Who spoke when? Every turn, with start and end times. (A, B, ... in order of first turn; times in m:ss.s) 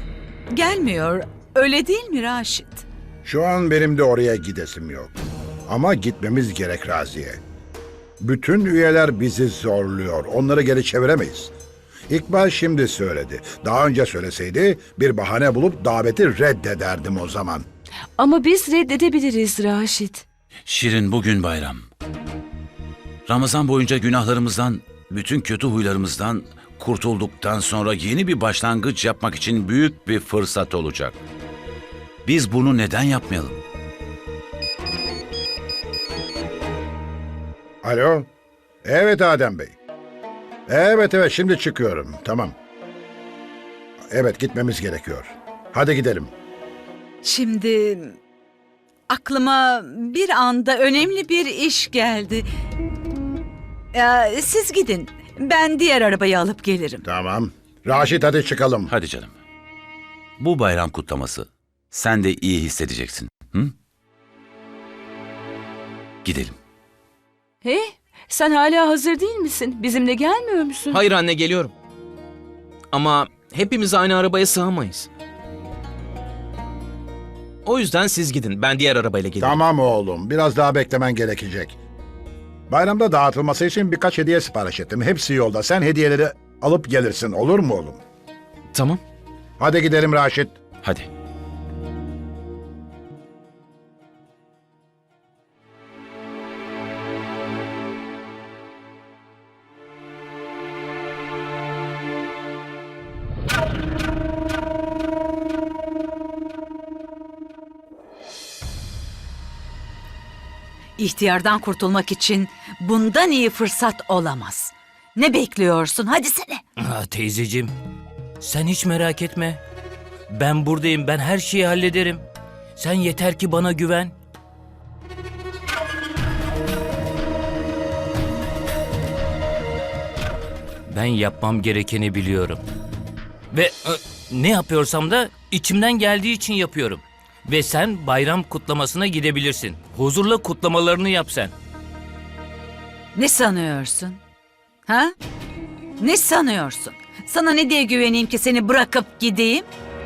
0:00.5-0:02.8 A
0:03.2-0:05.1 B
0:05.7-0:07.4 B
0:08.2-0:11.5 B
0:12.1-0:17.6 B
0:18.2-0:20.2 C
0:20.7-0:21.8 D
0:23.2-0:31.2 D
0:32.2-0:33.6 D
0:37.8-0:38.3 B
0:38.8-0:39.7 B
0:40.7-0:42.5 B
0:44.1-0:46.3 B
0:47.2-0:48.2 A
0:49.1-0:52.4 A
0:53.9-0:57.0 A
0:57.0-0:58.9 B
0:58.9-0:59.3 D
1:00.4-1:03.7 D
1:06.2-1:06.6 D
1:07.6-1:11.0 C
1:10.9-1:11.7 E
1:12.9-1:15.1 E
1:17.6-1:19.6 E
1:19.4-1:21.8 B
1:22.7-1:28.0 B
1:28.7-1:29.0 E
1:29.6-1:30.6 B
1:51.0-1:56.6 A
1:56.8-1:57.7 F
1:58.4-1:59.6 F
2:00.3-2:02.2 F
2:02.8-2:04.1 F
2:10.9-2:12.6 F
2:13.5-2:21.5 F
2:23.1-2:24.2 A
2:24.9-2:25.1 A
2:26.0-2:29.7 A